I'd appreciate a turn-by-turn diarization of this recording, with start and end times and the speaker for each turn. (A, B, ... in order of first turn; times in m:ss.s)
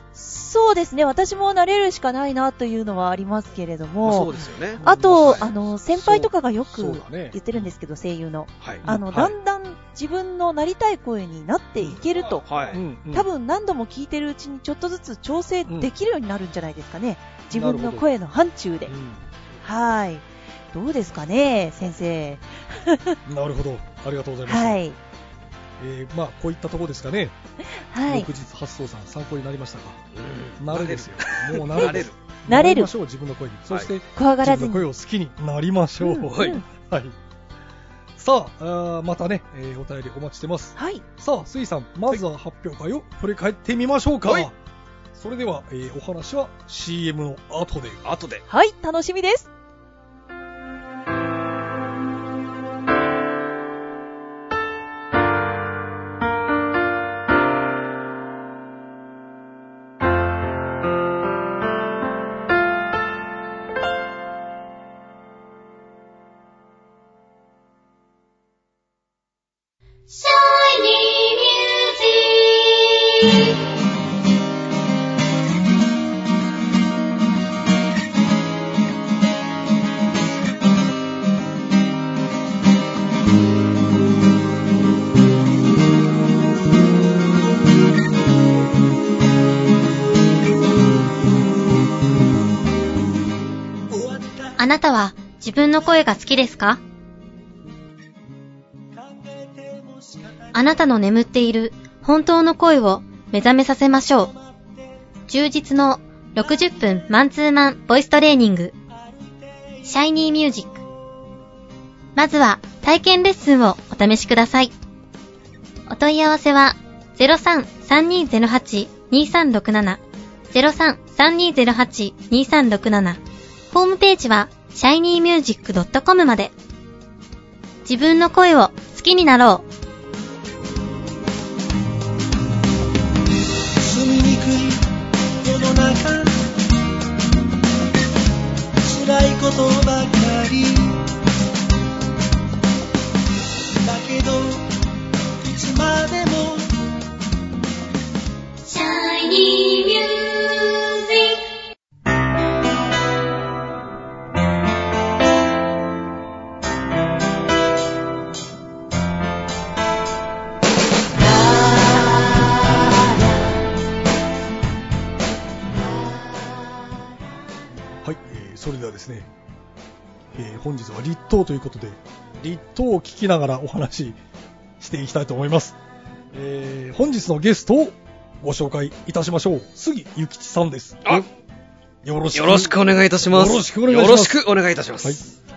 0:00.1-0:04.3 A
0:04.0-0:05.4 B
0:04.8-0:07.4 C
0:04.8-0:12.4 A
0:08.8-0:09.4 C
0:12.4-0:12.8 B
0:12.7-0:13.3 C
0:13.1-0:19.0 A
0:17.5-0:18.1 C
0:18.9-0:19.3 C
0:19.6-0:23.2 A
0:23.3-0:24.8 C
0:24.5-0:25.0 A
0:25.8-0:27.4 C
0:27.8-0:28.3 A
0:28.0-0:30.0 C
0:30.1-0:32.2 B
0:30.6-0:37.2 C
0:32.5-0:32.9 A
0:34.2-0:34.9 A
0:36.0-0:36.6 A
0:36.2-0:36.6 B
0:38.2-0:44.5 C
0:40.8-0:41.0 A
0:45.2-0:48.0 C
0:48.0-0:48.4 B
0:48.5-0:49.5 A
1:10.1-1:13.6 D
1:34.0-1:34.4 E
1:34.6-1:36.8 D
1:39.5-1:40.3 E
1:40.5-1:44.3 D
1:45.3-1:48.8 D
1:49.8-1:50.8 D
1:52.2-1:54.7 D
1:55.9-2:00.0 D
2:00.5-2:03.2 D
2:03.7-2:06.5 D
2:07.8-2:09.7 D
2:13.8-2:14.9 E
2:15.4-2:16.4 E
2:18.8-2:21.0 E
2:23.8-2:24.7 E
2:25.4-2:26.7 E
2:28.6-2:31.4 D
2:48.0-2:49.3 C
2:50.3-2:54.2 C
2:54.8-2:55.8 C
2:56.3-3:01.3 C
3:02.0-3:02.7 C
3:02.3-3:05.2 B
3:03.3-3:04.4 C